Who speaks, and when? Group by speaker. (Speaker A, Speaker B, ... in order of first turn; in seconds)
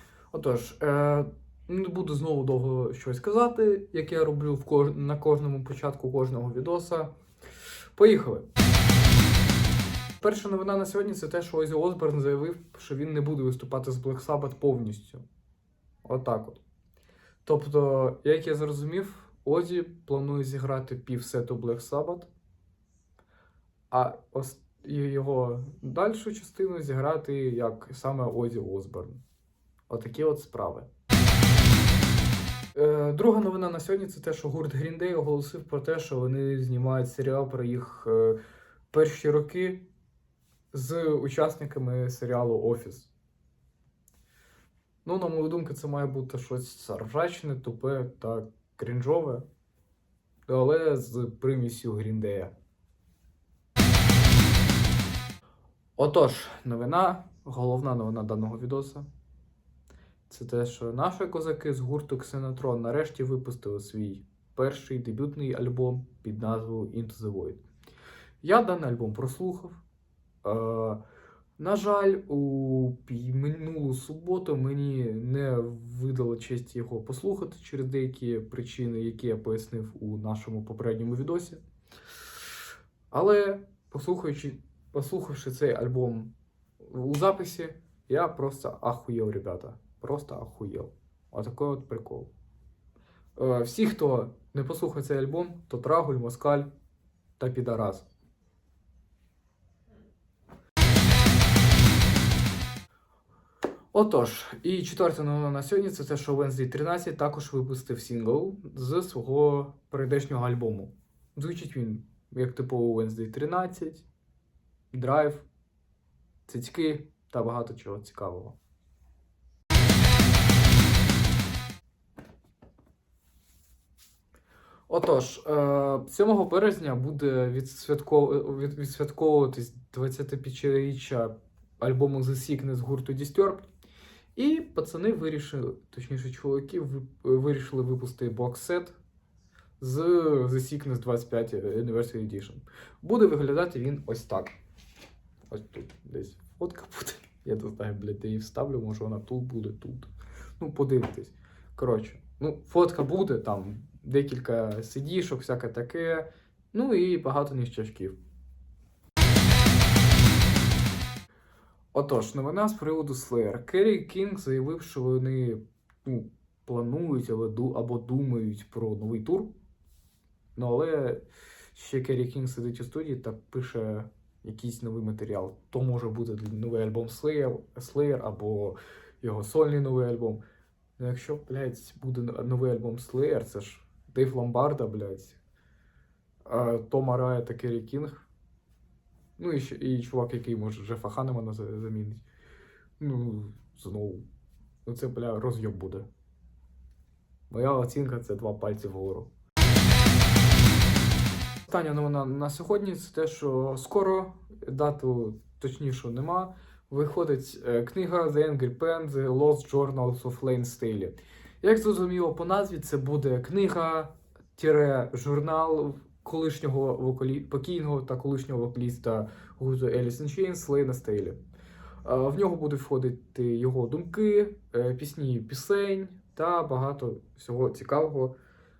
Speaker A: 0.3-7.1, 8.0-8.5, 10.2-15.2, 16.1-16.6, 17.4-22.3, 23.9-29.2, 29.9-30.9, 32.7-38.4, 38.9-39.9, 40.7-43.1, 45.0-49.5, 50.5-52.5, 56.0-59.1, 60.3-67.6, 68.4-69.8, 70.4-71.0, 71.6-81.6, 83.1-92.3, 93.4-96.7, 97.4-98.1, 103.9-114.0, 114.9-115.5, 116.5-118.6, 124.9-133.7, 134.4-139.0, 139.8-144.6, 145.5-158.2, 161.9-169.5, 170.6-180.4, 181.0-185.4, 186.5-188.3, 189.4-192.2, 193.0-194.3, 194.8-196.1, 197.5-199.3, 201.7-221.4, 222.0-228.3